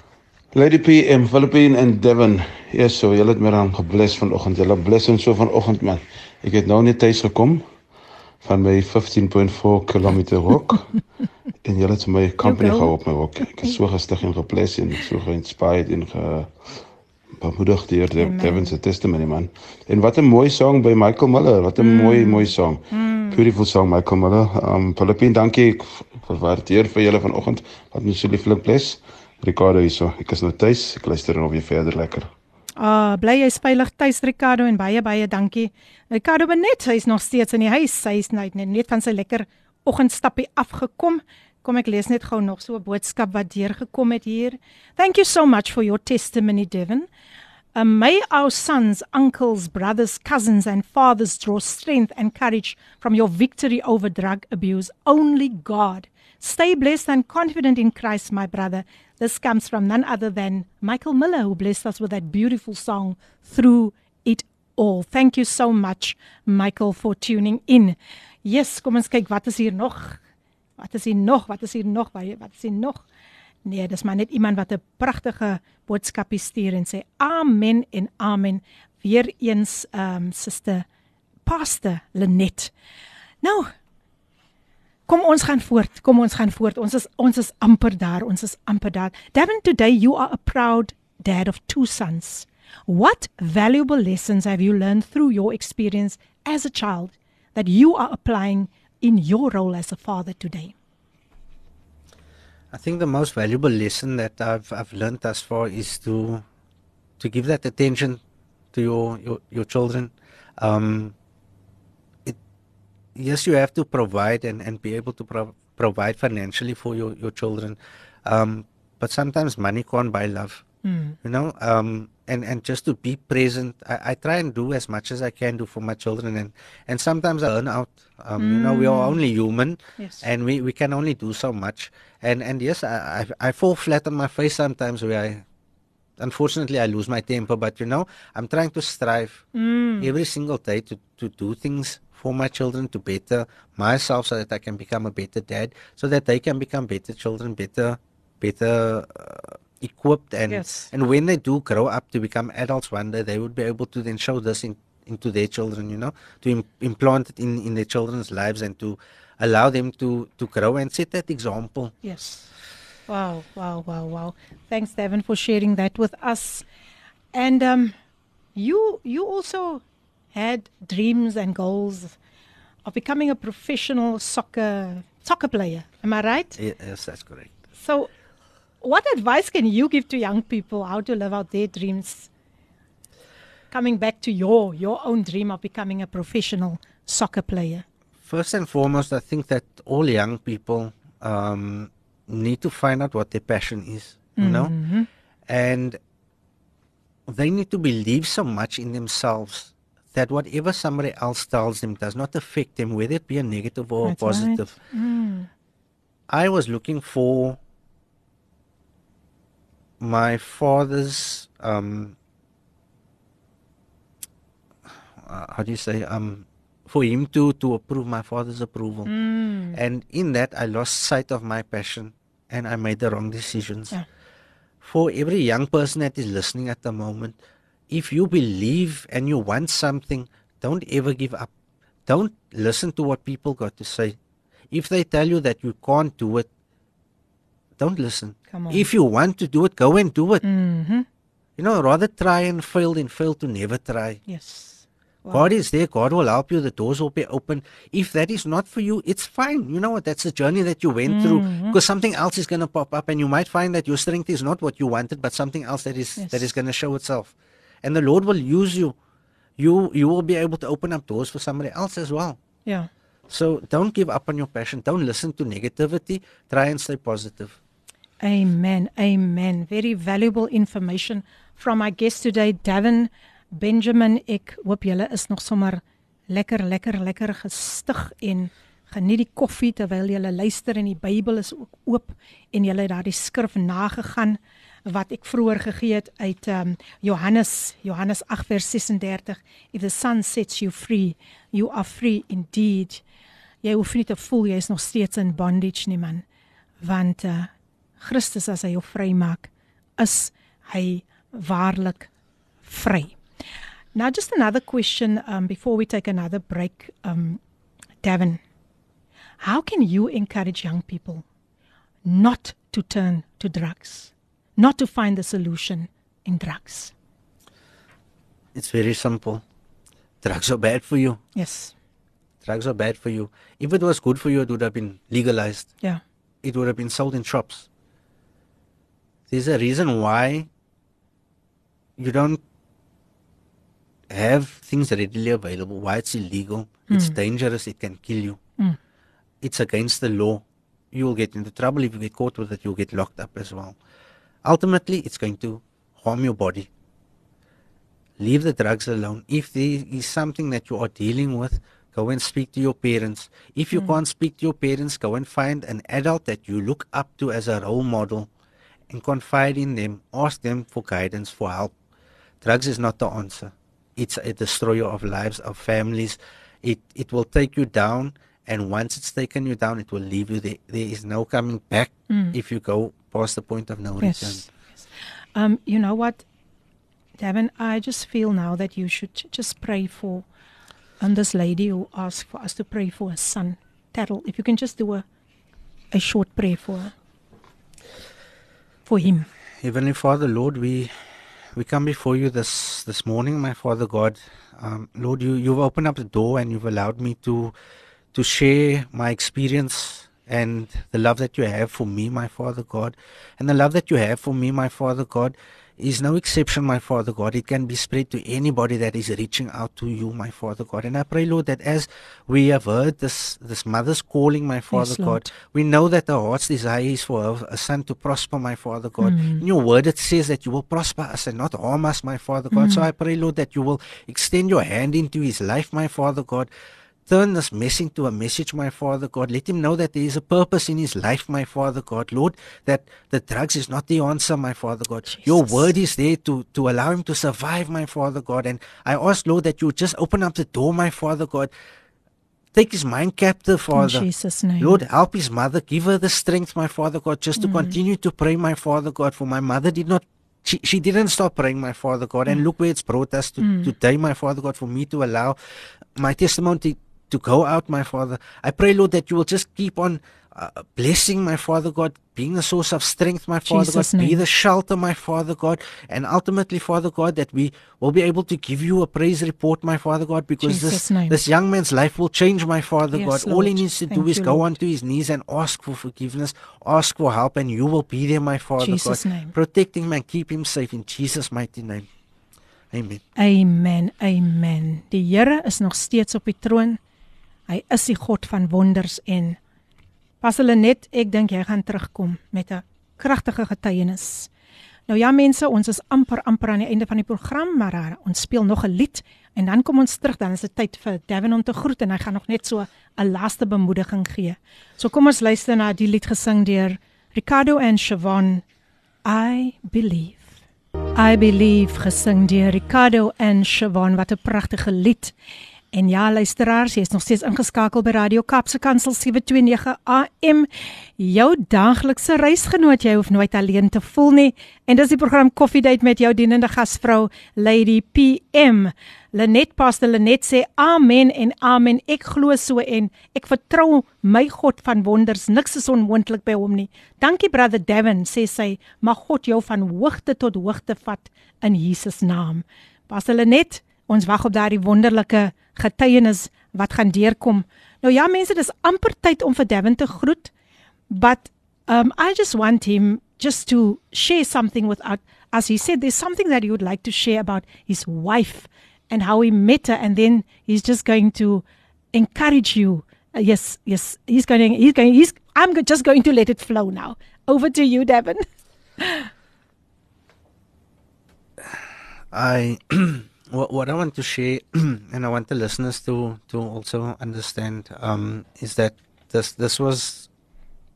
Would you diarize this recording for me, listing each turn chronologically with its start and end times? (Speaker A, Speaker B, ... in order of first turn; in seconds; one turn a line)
Speaker A: 0.5-7.6
Speaker A: 8.4-11.0
Speaker A: 11.6-16.7
Speaker B: 12.4-12.9
Speaker A: 17.4-32.3
Speaker B: 18.2-18.7
Speaker B: 21.8-23.4
Speaker B: 32.8-47.1
Speaker B: 47.7-70.2
Speaker B: 70.8-73.0
Speaker B: 73.6-80.8
Speaker B: 81.5-82.7
Speaker B: 83.4-83.7
Speaker B: 85.1-100.7
Speaker C: 102.7-106.4
Speaker C: 107.2-108.2
Speaker C: 108.7-111.1
Speaker C: 113.1-120.6
Speaker B: 120.8-121.2
Speaker C: 121.2-135.4
Speaker B: 128.4-129.2
Speaker B: 130.0-130.2
Speaker C: 136.2-139.4
Speaker B: 139.5-140.1
Speaker C: 140.0-161.9
Speaker B: 150.5-150.9
Speaker B: 162.0-162.5
Speaker B: 163.1-166.6
Speaker B: 167.3-167.9
Speaker B: 168.5-169.8
Speaker B: 170.3-172.2
Speaker B: 172.8-176.6
Speaker C: 176.6-177.5
Speaker B: 177.8-178.1
Speaker B: 178.8-182.3
Speaker B: 183.7-187.8
Speaker C: 188.2-194.7
Speaker B: 194.4-195.1
Speaker C: 195.5-196.0
Speaker C: 197.3-204.7
Speaker B: 204.0-205.5
Speaker C: 206.3-207.6
Speaker C: 210.0-212.2
Speaker C: 215.2-219.1
Speaker B: 219.1-219.8
Speaker C: 219.7-224.0
Speaker C: 224.8-227.4
Speaker C: 227.9-231.5
Speaker C: 232.1-234.2
Speaker C: 234.7-236.5
Speaker C: 237.8-240.4
Speaker B: 238.5-238.9
Speaker B: 240.4-241.1
Speaker C: 241.6-244.2
Speaker B: 244.3-245.4
Speaker C: 245.3-258.9
Speaker B: 251.1-251.8
Speaker B: 256.2-256.4
Speaker C: 259.6-262.4
Speaker C: 263.3-267.6
Speaker B: 268.2-293.0
Speaker B: 293.6-296.2
Speaker B: 296.8-302.1
Speaker B: 302.6-303.1
Speaker B: 303.9-307.4
Speaker B: 308.0-308.4
Speaker B: 309.4-311.2
Speaker B: 312.0-316.9
Speaker C: 318.5-319.4
Speaker C: 320.2-321.2
Speaker B: 321.3-321.7
Speaker C: 322.4-325.7
Speaker C: 326.4-327.7
Speaker C: 329.3-330.5
Speaker C: 332.0-332.4
Speaker C: 334.1-338.4
Speaker B: 336.9-337.1
Speaker C: 339.4-343.8
Speaker C: 344.4-346.7
Speaker C: 348.2-358.3
Speaker C: 358.9-361.7
Speaker C: 362.4-374.4
Speaker B: 372.1-372.3
Speaker B: 374.0-374.5
Speaker B: 375.3-376.2
Speaker B: 377.2-380.2
Speaker B: 381.0-385.0
Speaker B: 385.9-386.9
Speaker B: 388.9-389.3
Speaker C: 389.6-390.9
Speaker C: 391.5-397.5
Speaker C: 398.1-426.5
Speaker B: 414.7-415.3
Speaker B: 419.0-419.4
Speaker B: 422.5-422.9
Speaker C: 427.1-441.5
Speaker B: 435.1-435.6
Speaker C: 442.5-444.1
Speaker B: 443.7-444.8
Speaker C: 444.6-455.4
Speaker B: 447.4-447.8
Speaker B: 453.4-453.7
Speaker C: 455.9-481.9
Speaker B: 463.5-464.2
Speaker B: 470.4-471.2
Speaker B: 472.9-474.5
Speaker B: 478.6-479.3
Speaker C: 482.7-483.0
Speaker B: 483.1-486.8
Speaker B: 487.5-489.4
Speaker B: 490.2-494.3
Speaker B: 494.9-508.4
Speaker B: 509.0-510.3
Speaker B: 510.9-515.1
Speaker B: 515.7-550.3
Speaker B: 550.9-568.2
Speaker B: 568.8-569.1
Speaker C: 571.5-580.1